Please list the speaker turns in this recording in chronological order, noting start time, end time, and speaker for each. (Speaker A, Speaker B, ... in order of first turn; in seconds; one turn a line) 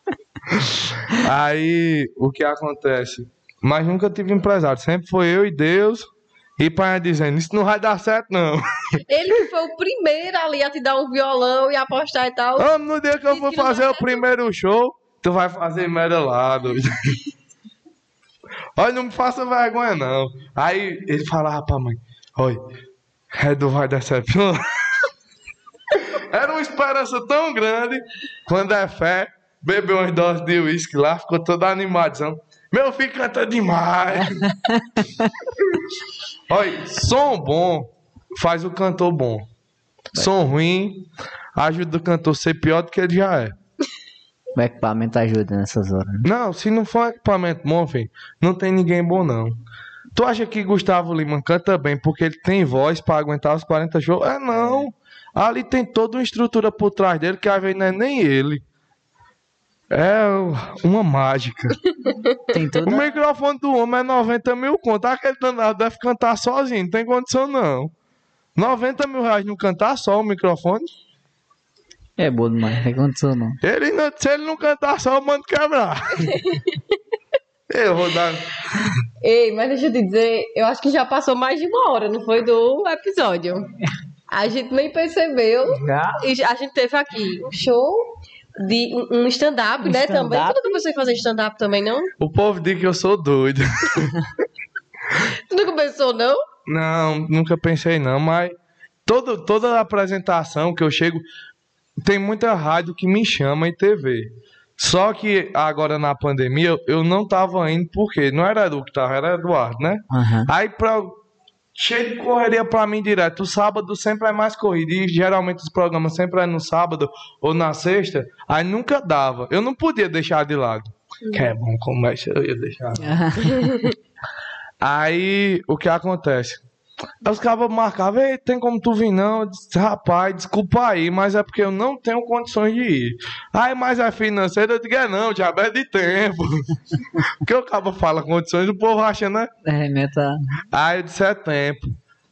Speaker A: 0.5-6.1
Speaker A: 6.6-9.0
Speaker B: 9.1-12.7
Speaker A: 12.6-17.2
Speaker B: 13.3-14.2
Speaker A: 18.8-22.6
Speaker A: 23.3-25.1
Speaker A: 25.9-34.5
Speaker C: 34.2-35.3
Speaker A: 36.5-39.5
Speaker A: 40.1-43.5
Speaker C: 44.6-46.3
Speaker A: 46.2-49.6
Speaker A: 50.1-58.6
Speaker A: 59.9-61.8
Speaker B: 62.1-62.4
Speaker C: 62.5-63.1
Speaker A: 62.9-67.9
Speaker A: 68.6-70.9
Speaker C: 72.2-73.6
Speaker A: 73.6-76.4
Speaker B: 76.2-76.8
Speaker A: 77.7-78.9
Speaker B: 79.2-83.7
Speaker B: 84.3-92.1
Speaker C: 85.7-86.2
Speaker C: 89.9-90.7
Speaker A: 92.2-94.2
Speaker B: 95.3-96.4
Speaker A: 96.7-98.5
Speaker A: 99.1-101.2
Speaker A: 102.0-111.2
Speaker C: 110.1-110.5
Speaker A: 111.8-123.2
Speaker B: 121.2-121.5
Speaker C: 123.0-123.8
Speaker A: 124.8-126.6
Speaker A: 127.2-139.5
Speaker C: 139.7-140.6
Speaker A: 140.7-141.9